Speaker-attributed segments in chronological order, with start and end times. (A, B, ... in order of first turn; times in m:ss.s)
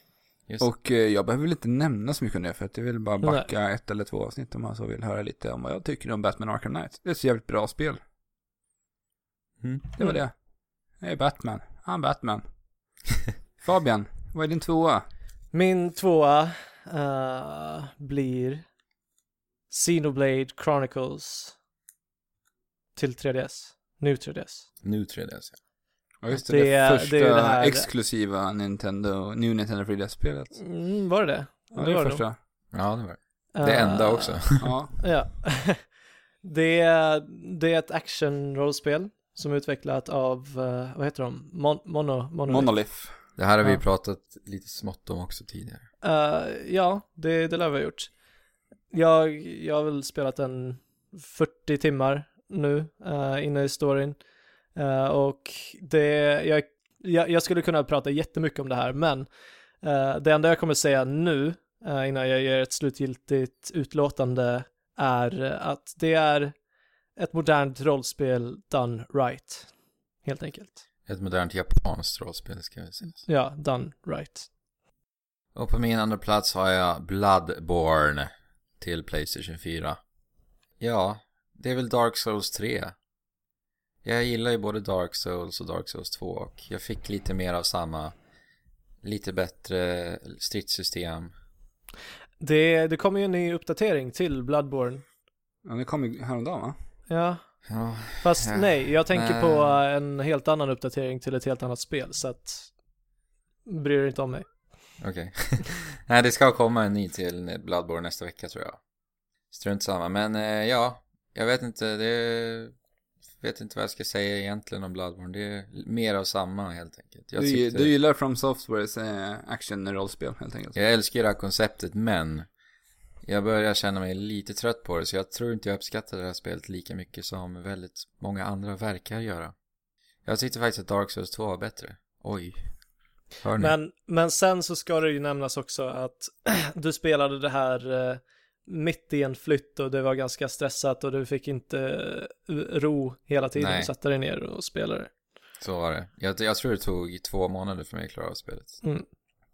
0:00.6-0:08.0 A
0:03.2-0:03.5 B
0:09.6-0:09.9 C
0:09.9-0:10.3 A
0:11.0-0:12.4 A
0:13.6-0:15.0 A
0:15.5-0:18.6 B
0:19.7-0:21.5 B
0:23.0-0:24.7 B
0:24.8-0:25.6 C
0:26.2-0:30.6 A
0:26.4-0:27.9 B
0:30.5-0:32.2 B
0:31.7-0:32.4 A
0:32.7-0:34.7 C
0:33.5-0:35.9 B
0:34.6-0:34.9 A
0:36.4-0:42.7 B
0:42.5-0:43.2 A
0:43.4-0:45.9 C
0:46.0-0:48.1 B
0:48.9-0:54.2 B
0:54.7-0:59.3 B
0:59.8-1:06.5 B
1:07.2-1:09.7 B
1:10.2-1:10.8 B
1:11.1-1:13.2 C
1:13.2-1:14.5 B
1:15.5-1:20.0 C
1:20.8-1:22.9 C
1:24.0-1:28.1 C
1:29.0-1:31.3 C
1:32.4-1:35.0 B
1:35.6-1:36.7 A
1:37.1-1:37.4 B
1:37.7-1:39.8 C
1:38.2-1:42.7 B
1:43.6-1:44.5 B
1:45.0-1:48.8 C
1:49.5-1:52.7 C
1:53.4-1:57.9 C
1:57.4-2:00.7 A
2:00.7-2:02.5 C
2:03.2-2:09.5 C
2:10.2-2:12.7 C
2:13.4-2:13.7 C
2:13.6-2:25.1 B
2:23.6-2:23.9 C
2:25.6-2:28.8 C